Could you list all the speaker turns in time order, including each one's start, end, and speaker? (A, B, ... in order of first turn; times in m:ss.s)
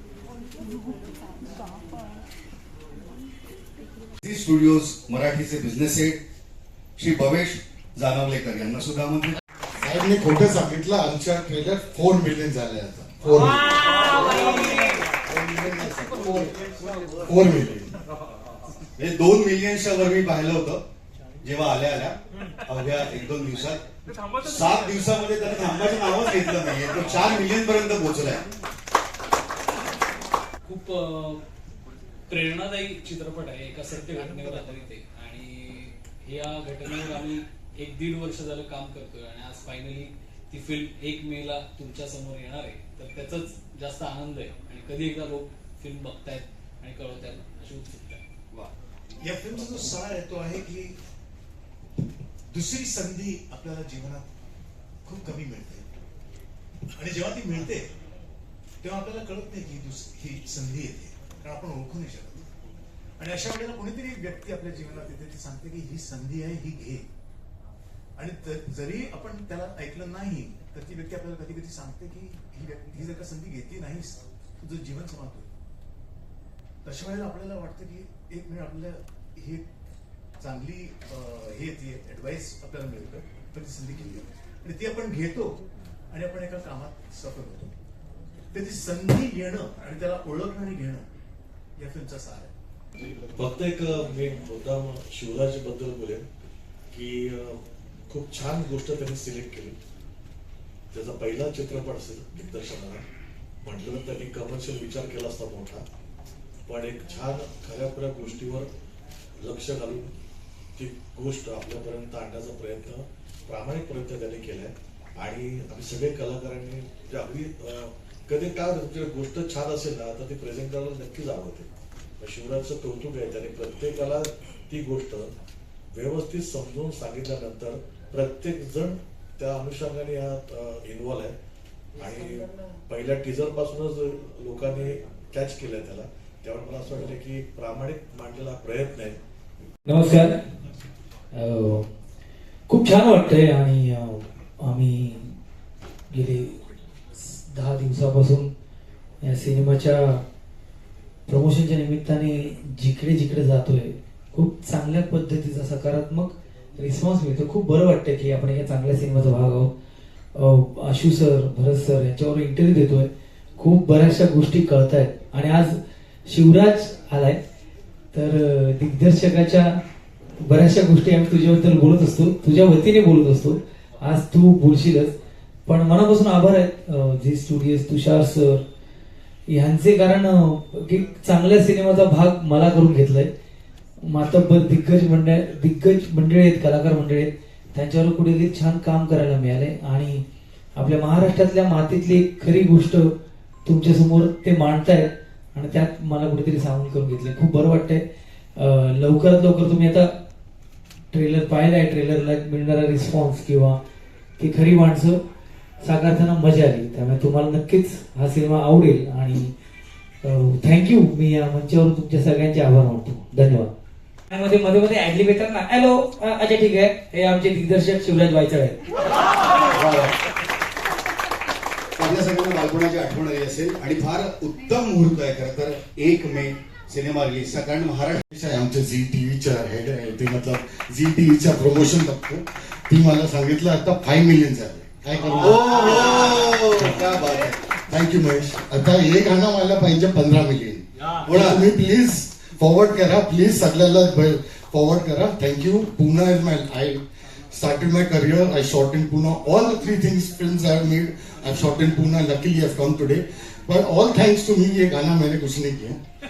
0:04.2-0:06.2 A
0:07.0-0:09.4 A
0:09.8-0:16.6 B
0:17.2-0:17.9 B
0:19.0-0:20.8 A
0:21.4-0:22.2 A
0:22.7-0:23.8 A
0:24.4-0:28.4 A
0:30.6-0:31.4 C
0:32.3-0:48.2 C
0:49.2-0:51.0 D
0:52.5-0:54.3 D
0:55.1-0:55.8 D
0:57.0-0:57.9 D
0:58.8-1:02.5 D
1:03.2-1:07.0 D
1:08.2-1:15.5 D
1:16.8-1:19.6 D
1:20.4-1:25.5 D
1:26.1-1:27.7 D
1:28.5-1:31.0 D
1:31.8-1:32.5 D
1:33.4-1:36.3 E
1:36.9-1:37.6 E
1:38.1-1:39.8 E
1:40.9-1:43.0 E
1:43.6-1:45.8 E
1:46.7-1:48.7 E
1:49.4-1:50.1 E
1:50.8-2:01.7 E
2:02.2-2:05.3 E
2:05.9-2:11.4 E
2:12.0-2:19.2 E
2:19.9-2:20.4 F
2:21.3-2:21.9 F
2:22.7-2:25.4 F
2:26.1-2:26.6 F
2:27.2-2:28.5 F
2:29.2-2:30.2 F
2:31.3-2:39.7 F
2:40.4-2:47.4 F
2:48.1-2:49.8 F
2:50.4-2:55.1 F
2:55.7-2:58.6 F
2:59.5-3:03.3 F
3:04.0-3:10.2 F
3:10.8-3:13.1 F
3:13.6-3:18.0 F
3:18.6-3:20.1 F
3:21.1-3:23.8 F
3:24.4-3:25.2 F
3:25.8-3:29.5 F
3:30.2-3:33.7 F
3:34.3-3:38.8 F
3:39.7-3:40.2 A
3:42.0-3:48.2 A
3:48.3-4:16.0 B
3:55.5-3:57.4 A
4:01.3-4:01.5 A